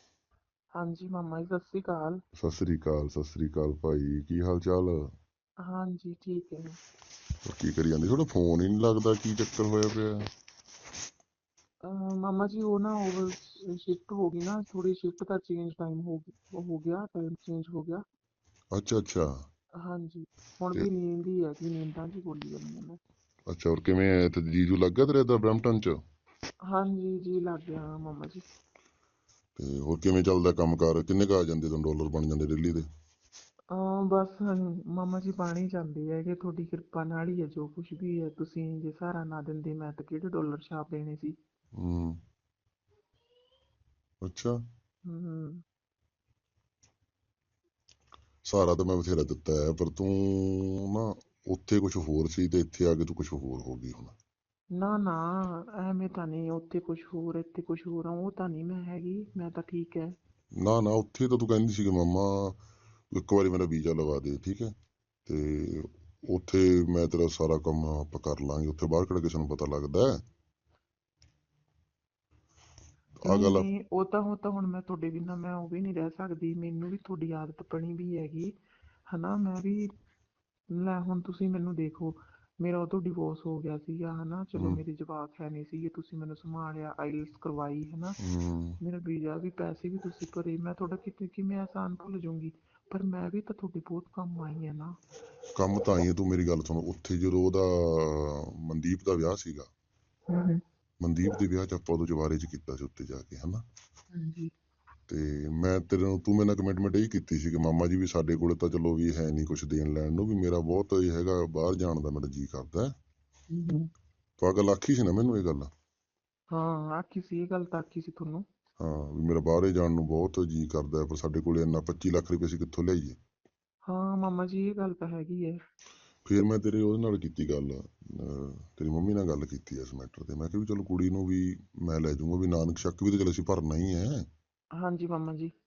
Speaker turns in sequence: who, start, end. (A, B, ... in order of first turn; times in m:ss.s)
0:00.7-0:02.2 A
0:02.4-0:05.0 B
0:05.6-0:06.8 A
0:07.4-0:10.3 B
0:11.8-0:18.0 A
0:18.7-0:19.4 B
0:19.8-0:23.0 A
0:23.5-0:26.0 B
0:26.6-0:28.4 A
0:29.6-0:32.8 B
0:33.7-0:41.4 A
0:41.8-0:42.2 B
0:44.2-0:44.6 B
0:45.0-0:45.6 A
0:48.4-0:54.1 B
0:54.7-1:00.2 A
1:00.6-1:04.7 B
1:05.2-1:10.2 B
1:13.2-1:13.7 B
1:13.2-1:18.5 A
1:19.1-1:19.9 A
1:20.7-1:28.2 A
1:28.2-1:28.8 B
1:28.8-1:34.9 A
1:35.6-1:39.7 B
1:40.3-1:40.6 A
1:41.0-1:43.6 B
1:44.1-1:44.5 A
1:45.1-1:52.9 B
1:53.5-1:53.9 A
1:54.4-1:55.7 B
1:56.5-1:58.4 A
1:58.8-2:03.2 B
2:03.9-2:05.6 A
2:06.2-2:14.2 B
2:14.8-2:15.5 A